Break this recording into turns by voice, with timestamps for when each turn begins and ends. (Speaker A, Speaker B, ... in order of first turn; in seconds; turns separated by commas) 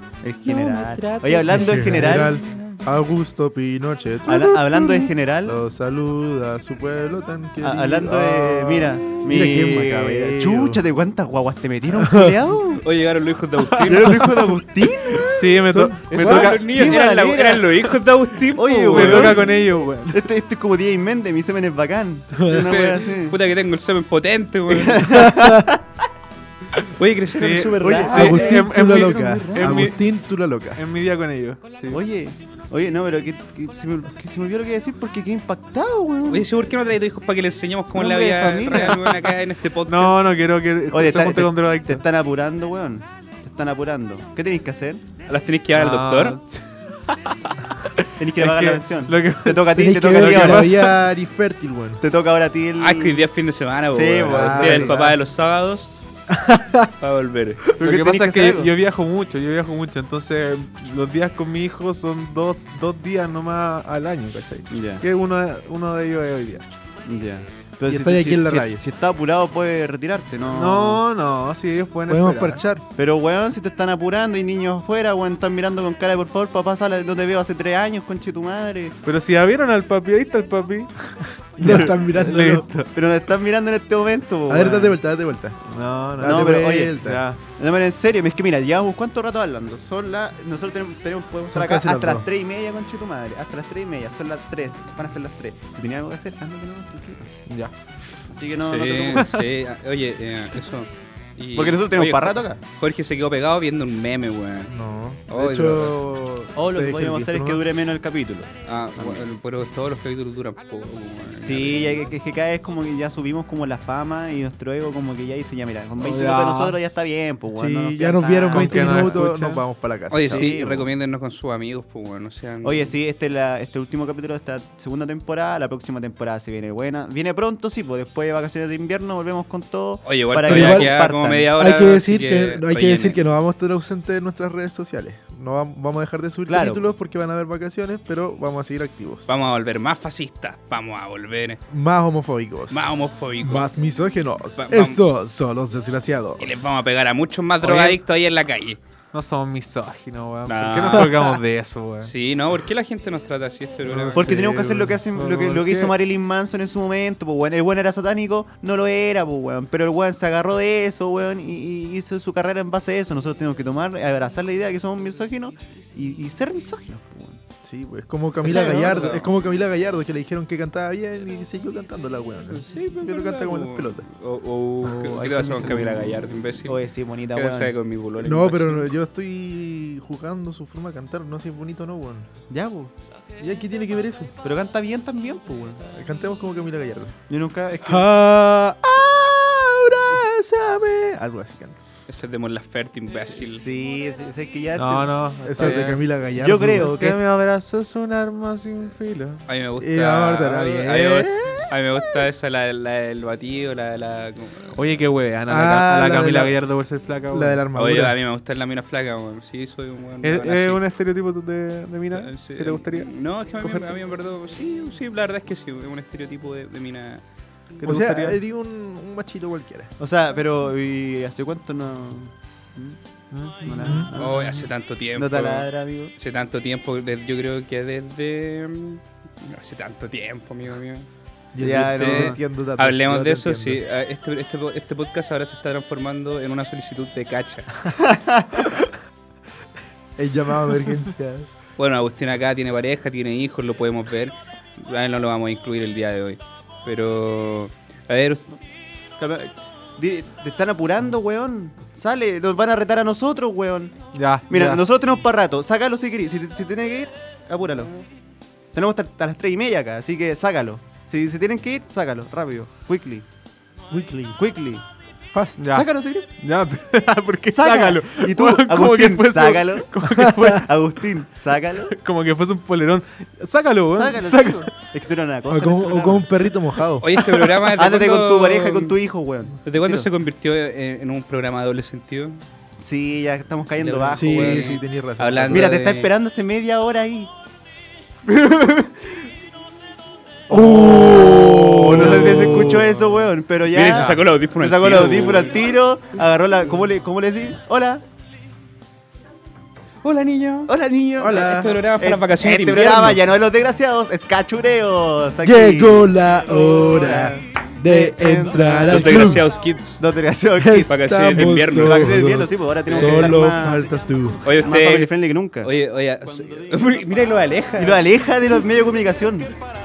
Speaker A: 0.2-2.4, Speaker B: 0.4-2.8, Speaker C: 1.5-10.8, Speaker A: 4.2-5.6, Speaker A: 7.6-12.8, Speaker C: 11.9-12.4, Speaker B: 12.8-14.2, Speaker D: 13.8-14.5, Speaker A: 13.8-15.6, Speaker D: 15.3-16.9, Speaker C: 15.7-16.1, Speaker B: 16.1-19.4, Speaker A: 16.2-17.9, Speaker A: 18.5-23.4, Speaker D: 18.6-20.3, Speaker C: 22.3-22.8, Speaker B: 22.5-25.1, Speaker A: 24.7-26.1, Speaker C: 25.0-25.6, Speaker B: 26.9-28.5, Speaker D: 27.3-30.1, Speaker C: 27.7-30.8, Speaker A: 27.8-28.5, Speaker A: 29.6-29.9, Speaker D: 30.7-31.9, Speaker A: 31.9-36.5, Speaker B: 36.3-40.2, Speaker A: 37.9-39.3, Speaker D: 39.9-42.0, Speaker A: 40.9-45.0, Speaker B: 45.3-46.4, Speaker D: 45.7-47.1, Speaker D: 47.9-50.9, Speaker A: 48.2-50.8, Speaker C: 49.7-52.0, Speaker A: 52.0-53.3, Speaker B: 52.8-55.9, Speaker A: 53.9-55.1, Speaker C: 54.2-55.1, Speaker C: 56.3-56.9, Speaker B: 57.0-57.6, Speaker A: 57.8-58.7, Speaker D: 57.8-66.7, Speaker A: 64.7-65.0, Speaker A: 67.0-71.0, Speaker C: 67.9-68.8, Speaker D: 70.5-72.6, Speaker C: 72.1-72.8, Speaker A: 73.0-79.0, Speaker D: 79.0-82.9, Speaker C: 81.6-82.7, Speaker A: 81.6-85.0, Speaker C: 84.5-85.6, Speaker D: 85.7-87.4, Speaker C: 86.2-87.2, Speaker A: 86.2-97.3, Speaker C: 91.5-92.3, Speaker D: 97.5-97.7, Speaker A: 98.3-99.3, Speaker B: 98.7-104.7, Speaker A: 101.5-102.6, Speaker C: 104.7-107.6, Speaker B: 105.3-106.0, Speaker A: 106.5-109.2, Speaker B: 108.6-112.1, Speaker A: 111.4-119.2, Speaker D: 116.0-116.8, Speaker C: 117.5-120.6, Speaker D: 118.5-119.6, Speaker B: 120.1-122.9, Speaker A: 120.2-120.9, Speaker A: 122.6-131.5, Speaker B: 130.0-133.2, Speaker C: 130.4-131.0, Speaker C: 131.5-139.3, Speaker A: 136.5-136.8, Speaker B: 139.3-141.6, Speaker C: 141.7-142.9, Speaker B: 142.7-143.7, Speaker C: 143.4-146.7, Speaker B: 144.6-145.0, Speaker B: 146.4-148.8, Speaker D: 147.6-148.0, Speaker D: 149.1-152.1, Speaker B: 150.5-151.1, Speaker B: 152.0-154.3, Speaker C: 153.9-155.0, Speaker D: 153.9-155.9, Speaker A: 154.2-167.4, Speaker C: 167.6-174.1, Speaker A: 168.4-169.1, Speaker B: 168.4-169.3, Speaker B: 172.5-176.8, Speaker A: 174.8-177.7, Speaker B: 177.3-178.9, Speaker C: 178.2-182.3, Speaker A: 182.5-182.9, Speaker C: 183.4-184.3, Speaker A: 184.4-185.8, Speaker C: 185.9-187.1, Speaker A: 187.3-188.1, Speaker C: 187.8-191.8, Speaker B: 192.1-193.6, Speaker A: 193.3-197.2, Speaker D: 194.7-196.1, Speaker C: 195.4-196.9, Speaker D: 196.6-199.4, Speaker B: 199.5-204.8, Speaker C: 199.8-201.7, Speaker D: 204.8-207.6, Speaker C: 205.5-206.6, Speaker C: 207.3-208.2, Speaker B: 207.7-210.8, Speaker D: 210.2-213.9, Speaker B: 212.1-217.2, Speaker D: 217.8-218.4, Speaker C: 217.8-219.9, Speaker A: 220.0-223.0, Speaker D: 223.3-224.1, Speaker A: 223.6-226.1, Speaker C: 223.8-224.1, Speaker B: 224.1-231.1, Speaker C: 231.5-233.8, Speaker A: 231.6-232.4, Speaker B: 231.7-237.7, Speaker A: 238.0-238.8, Speaker C: 240.2-241.5, Speaker B: 241.8-248.5, Speaker A: 249.2-253.9, Speaker D: 254.1-254.8, Speaker A: 254.5-257.9, Speaker A: 258.7-263.2, Speaker C: 263.9-264.4, Speaker A: 264.4-264.8, Speaker C: 265.3-265.6, Speaker D: 265.6-270.7, Speaker A: 265.7-266.3, Speaker A: 267.5-271.9, Speaker D: 271.9-274.7, Speaker A: 273.9-276.3, Speaker C: 275.5-277.1, Speaker B: 277.0-278.9, Speaker A: 277.7-280.1, Speaker B: 279.6-282.4, Speaker A: 282.8-284.8, Speaker B: 283.7-286.1, Speaker C: 284.1-285.8, Speaker A: 285.5-287.3, Speaker A: 288.2-289.1, Speaker C: 290.5-293.1, Speaker A: 290.5-298.0, Speaker B: 293.7-295.6, Speaker B: 300.0-300.7, Speaker A: 300.7-309.4, Speaker C: 301.2-301.8, Speaker B: 301.2-303.2, Speaker C: 305.4-309.5, Speaker B: 308.9-310.0, Speaker A: 310.0-313.9, Speaker C: 310.6-314.5, Speaker B: 310.9-312.1, Speaker B: 312.9-313.3, Speaker B: 314.4-318.0, Speaker A: 314.6-315.7, Speaker A: 317.8-319.5